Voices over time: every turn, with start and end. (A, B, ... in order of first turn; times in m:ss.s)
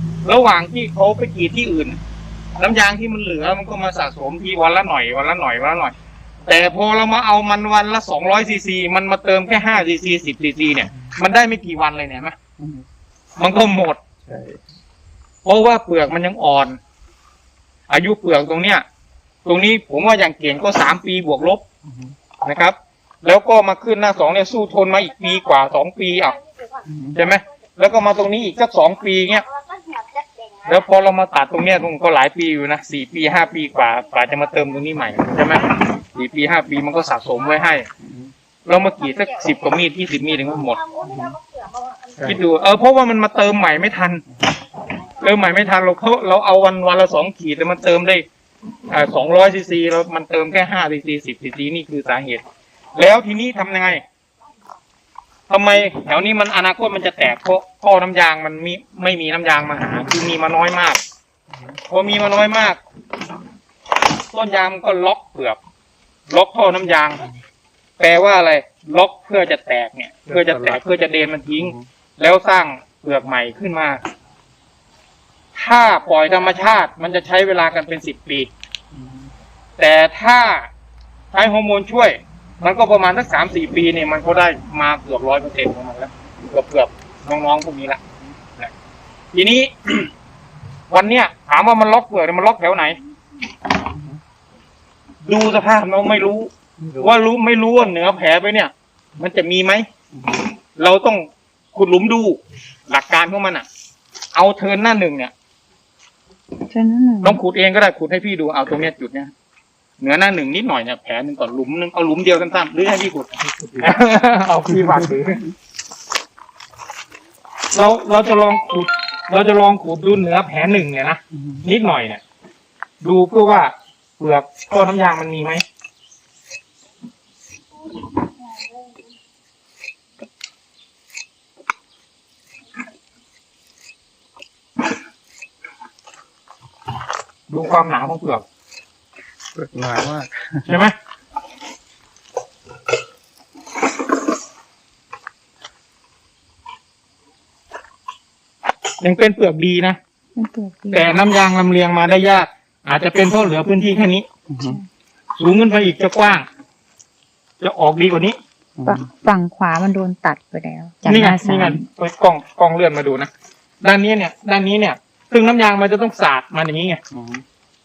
0:00.2-0:02.0 A
0:02.6-0:06.0 A
0:06.5-0:12.4 A
0:13.4-0:14.0 A
0:14.3-0:14.6 B
0:15.4-0:16.8 A
0:17.9-0:18.8 A
0:19.4-0:21.6 A
0:22.4-0:26.4 A
0:26.9-0:27.2 B
0:27.1-0:29.5 A
0:30.6-0:37.9 A
0:38.6-0:40.8 A
0:42.2-0:44.2 A
0:45.2-0:48.2 A
0:48.9-0:54.0 A
0:55.5-1:01.0 A
1:01.9-1:02.8 A
1:04.3-1:05.6 A
1:06.3-1:07.2 A
1:08.0-1:14.0 A
1:10.3-1:10.7 B
1:15.5-1:18.5 A
1:19.0-1:19.3 B
1:19.8-1:20.7 A
1:21.3-1:28.0 A
1:29.3-1:30.1 A
1:30.9-1:33.0 A
1:35.2-1:39.9 A
1:36.8-1:37.1 B
1:40.8-1:43.7 A
1:44.3-1:45.3 A
1:46.7-1:47.4 C
1:47.2-1:49.3 A
1:50.0-1:55.5 A
1:57.7-2:02.2 A
2:03.0-2:05.6 A
2:17.5-2:18.4 A
2:19.6-2:20.6 B
2:20.6-2:20.9 A
2:29.0-2:30.0 A
2:30.4-2:31.2 C
2:30.9-2:34.3 A
2:34.5-2:34.8 B
2:35.4-2:36.5 A
2:37.6-2:38.4 A
2:38.8-2:39.0 B
2:38.8-2:41.8 C
2:41.1-2:43.3 A
2:43.8-2:47.0 A
2:47.1-2:47.4 B